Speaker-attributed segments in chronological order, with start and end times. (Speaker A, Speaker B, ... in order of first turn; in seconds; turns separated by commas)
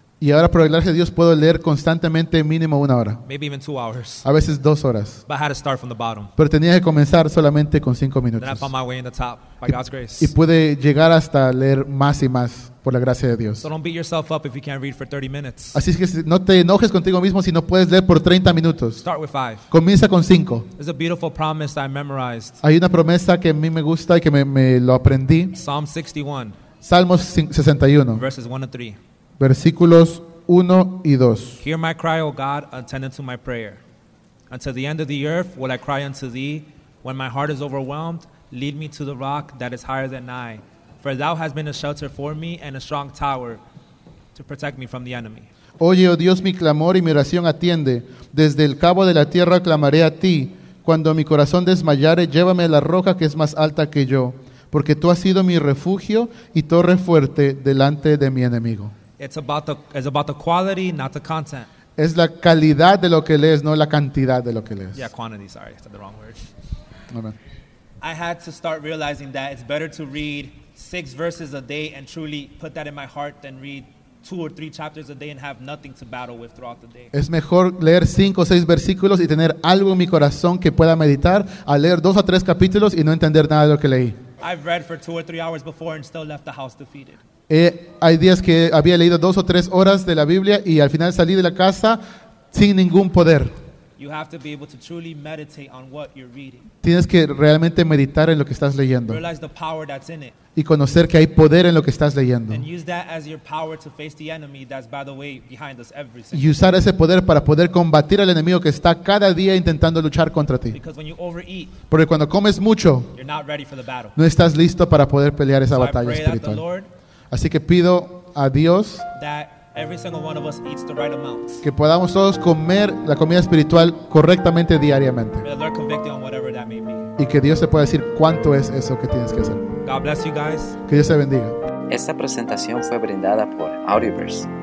Speaker A: 0.2-3.2, Speaker B: 3.2-4.2, Speaker A: 4.2-5.2, Speaker B: 5.3-6.3, Speaker A: 6.4-8.7, Speaker B: 8.4-10.3, Speaker A: 9.7-13.7, Speaker B: 13.6-15.8, Speaker A: 15.7-19.0, Speaker B: 19.0-19.7, Speaker A: 19.7-20.7, Speaker B: 20.8-22.6, Speaker A: 22.6-25.6, Speaker B: 25.6-26.6, Speaker A: 26.8-28.2, Speaker B: 28.2-29.0, Speaker A: 29.4-31.6, Speaker B: 31.6-33.8, Speaker B: 34.5-43.6, Speaker B: 44.3-45.5, Speaker A: 45.8-58.9, Speaker B: 59.2-61.7, Speaker A: 62.0-65.1, Speaker B: 64.9-66.4, Speaker A: 67.1-67.3, Speaker B: 68.0-77.1, Speaker A: 77.1-84.2, Speaker B: 84.4-87.2, Speaker A: 87.5-92.0, Speaker A: 92.5-93.5, Speaker B: 94.0-96.7, Speaker A: 96.8-99.2, Speaker B: 99.1-100.3, Speaker A: 100.5-102.6, Speaker B: 102.5-106.6, Speaker A: 106.3-110.8, Speaker B: 110.7-111.7, Speaker A: 111.9-113.1, Speaker B: 113.2-114.1, Speaker A: 114.2-116.6, Speaker B: 115.7-116.9, Speaker A: 117.3-119.1, Speaker B: 119.1-121.6, Speaker A: 121.6-125.5, Speaker B: 125.4-127.1, Speaker A: 127.2-129.6, Speaker B: 129.8-130.8, Speaker A: 130.9-131.6, Speaker C: 131.9-134.5